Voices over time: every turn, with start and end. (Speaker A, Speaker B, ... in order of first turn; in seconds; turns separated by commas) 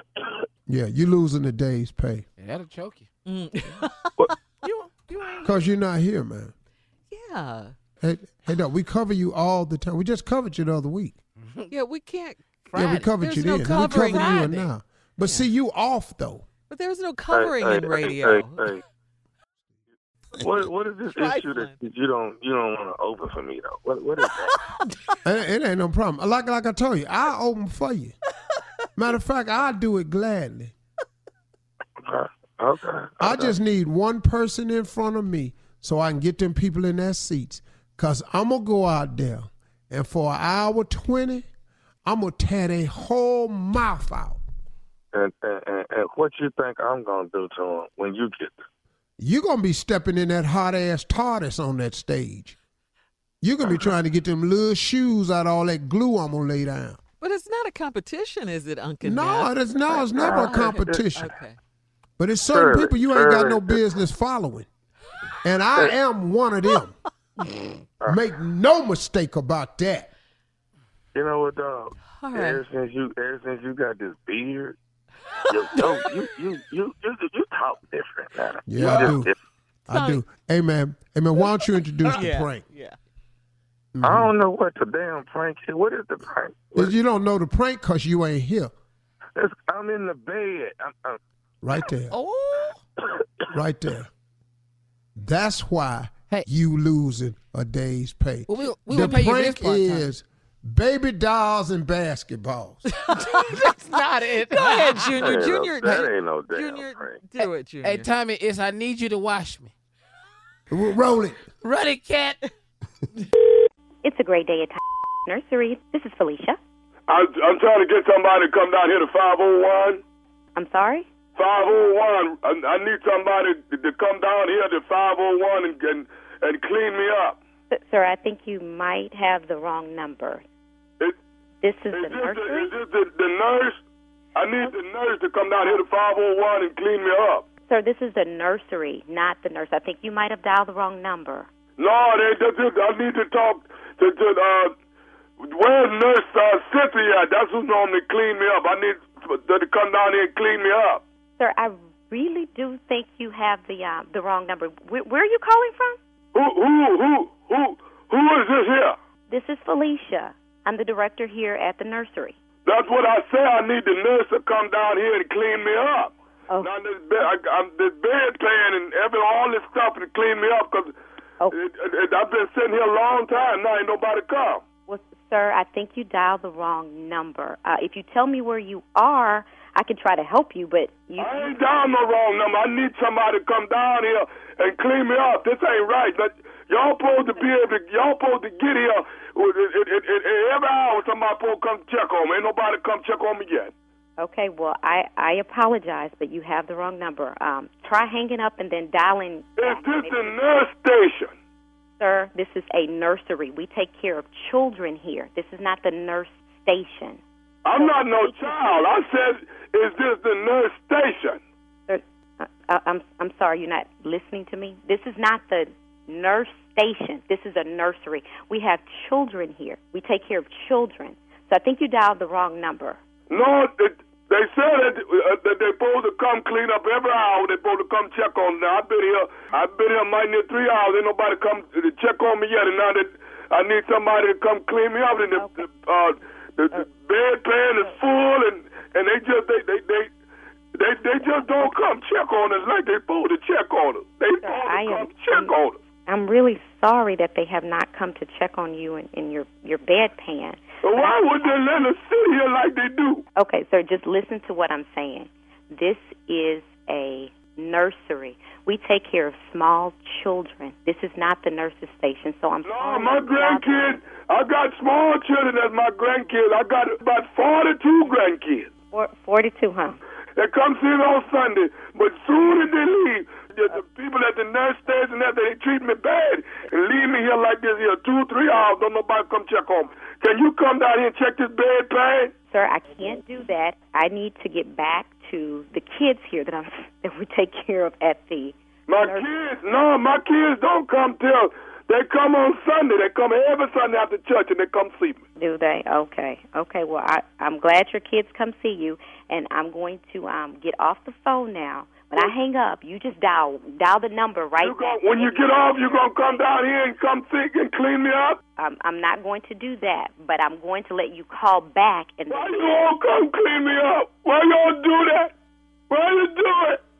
Speaker A: 0.7-2.2, Speaker B: 2.4-3.1, Speaker C: 3.2-5.5, Speaker A: 5.4-6.5, Speaker C: 7.1-7.7, Speaker A: 8.0-11.2, Speaker B: 11.4-11.8, Speaker C: 11.7-12.4, Speaker B: 12.6-14.6, Speaker A: 12.7-16.4, Speaker C: 13.2-14.7, Speaker C: 15.2-15.5, Speaker C: 16.7-18.6, Speaker D: 17.3-18.8, Speaker D: 20.4-24.6, Speaker C: 21.1-21.7, Speaker A: 25.2-28.1, Speaker A: 28.9-30.7, Speaker D: 32.0-33.5, Speaker A: 33.2-41.5, Speaker A: 42.0-44.4, Speaker D: 45.1-48.6, Speaker A: 49.2-52.6, Speaker A: 53.4-57.0, Speaker D: 53.6-53.9, Speaker C: 57.2-61.6, Speaker A: 59.0-61.3, Speaker D: 60.1-61.1, Speaker A: 62.2-64.7, Speaker D: 62.5-63.8, Speaker A: 65.4-67.0, Speaker A: 68.0-70.1, Speaker D: 71.1-74.8, Speaker C: 72.2-72.6, Speaker D: 75.5-79.4, Speaker A: 78.7-79.3, Speaker A: 79.9-82.6, Speaker C: 79.9-80.2, Speaker C: 82.0-83.0, Speaker A: 83.9-84.3, Speaker D: 84.0-86.9, Speaker A: 86.7-88.7, Speaker D: 89.3-91.2, Speaker A: 91.6-92.2, Speaker B: 92.1-92.8, Speaker A: 93.5-94.1, Speaker A: 95.2-102.8, Speaker B: 98.5-100.1, Speaker C: 98.9-99.7, Speaker C: 103.1-103.7, Speaker B: 103.2-106.1, Speaker C: 104.5-108.1, Speaker D: 105.1-107.2, Speaker B: 107.4-109.7, Speaker A: 110.7-111.5, Speaker B: 111.6-112.5, Speaker E: 114.0-116.6, Speaker F: 117.1-120.0, Speaker E: 120.5-121.0, Speaker F: 121.3-127.4, Speaker E: 127.7-130.4, Speaker E: 131.6-132.7, Speaker F: 131.9-133.8, Speaker F: 134.3-137.4, Speaker E: 137.7-141.5, Speaker F: 141.8-144.7, Speaker F: 145.4-151.0, Speaker E: 151.4-156.0, Speaker F: 156.3-158.9, Speaker E: 159.3-162.3, Speaker F: 162.6-170.9, Speaker F: 171.5-174.6, Speaker E: 174.9-181.6, Speaker F: 181.2-193.7, Speaker E: 194.2-200.3, Speaker F: 199.6-201.3, Speaker E: 202.0-207.2, Speaker F: 207.6-211.4, Speaker E: 207.8-208.8, Speaker E: 211.9-223.0, Speaker F: 223.3-240.1, Speaker E: 235.3-235.7, Speaker F: 240.7-245.8, Speaker E: 244.4-245.5, Speaker E: 246.1-251.6, Speaker F: 250.8-253.2, Speaker E: 253.3-264.0, Speaker F: 262.6-268.7, Speaker E: 268.9-270.0, Speaker F: 270.4-282.3, Speaker E: 282.5-289.3, Speaker F: 288.9-295.2, Speaker E: 295.4-306.4, Speaker F: 304.6-308.4, Speaker E: 308.6-312.8, Speaker F: 312.3-315.3, Speaker F: 315.9-316.8